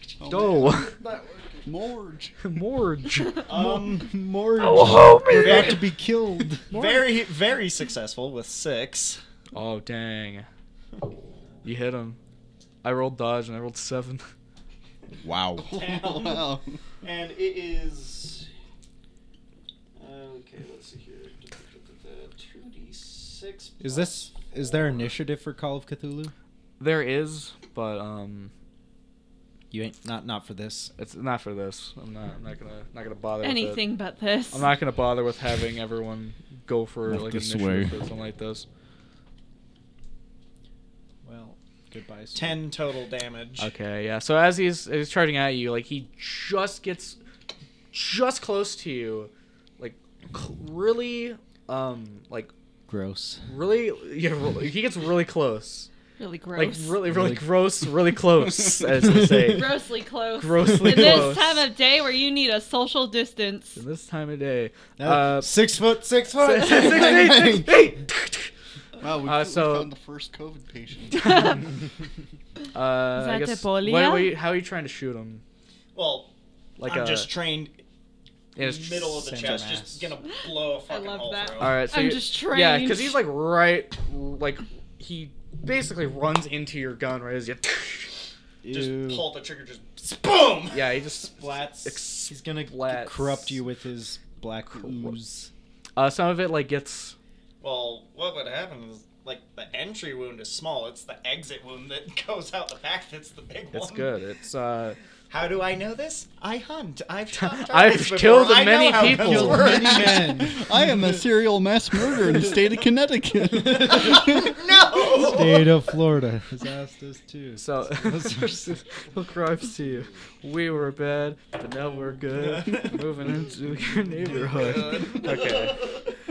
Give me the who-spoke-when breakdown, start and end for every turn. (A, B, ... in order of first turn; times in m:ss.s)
0:00.2-0:00.9 A
0:00.3-0:00.9 B
0:00.6-0:01.6 C
0:01.6-0:02.4 A
0:02.4-0:03.4 B
0:03.4-0:04.1 D
0:03.5-0:06.7 C
0:04.6-0:05.8 B
0:05.4-0:05.9 D
0:06.7-0:07.1 B
0:06.7-0:09.2 D
0:09.5-0:10.5 B
0:11.6-0:12.2 B
0:12.8-0:14.3 B
0:15.2-0:15.9 C
0:15.6-0:16.8 A
0:15.7-0:16.5 D
0:17.0-0:18.5 D
0:20.0-0:24.5 D
0:23.8-0:26.3 C
0:26.8-0:28.5 B
0:29.7-0:30.9 C
0:31.0-0:33.8 B
0:33.4-0:34.7 E
0:34.5-0:38.6 B
0:37.1-0:38.0 C
0:41.2-0:42.6 C
0:42.3-0:43.7 D
0:43.6-0:47.2 B
0:47.9-0:52.5 B
0:52.9-0:53.5 C
0:53.5-0:55.9 B
0:56.2-0:57.0 E
0:56.5-1:01.6 B
0:57.0-0:57.6 C
0:58.9-0:59.7 C
0:59.5-1:03.8 E
1:00.6-1:01.4 C
1:03.8-1:05.6 B
1:05.0-1:08.0 C
1:06.4-1:08.5 B
1:09.0-1:11.6 A
1:09.2-1:09.9 B
1:11.2-1:11.6 E
1:12.7-1:15.4 B
1:13.2-1:14.3 E
1:15.9-1:16.3 D
1:16.8-1:17.3 B
1:16.8-1:17.8 D
1:18.6-1:19.5 B
1:18.6-1:21.8 D
1:19.2-1:20.1 C
1:20.9-1:23.2 E
1:21.6-1:28.1 B
1:28.6-1:29.3 C
1:28.7-1:30.9 D
1:30.7-1:33.6 B
1:31.3-1:35.5 C
1:34.7-1:35.2 B
1:36.0-1:37.1 B
1:37.6-1:44.1 D
1:43.7-1:45.0 B
1:45.3-1:50.6 D
1:47.3-1:49.8 B
1:49.0-1:51.1 C
1:49.8-1:54.5 A
1:52.2-1:52.6 D
1:53.5-1:54.3 C
1:53.9-1:55.8 D
1:55.0-1:59.1 C
1:57.6-2:06.0 B
2:02.3-2:03.0 D
2:04.3-2:06.1 D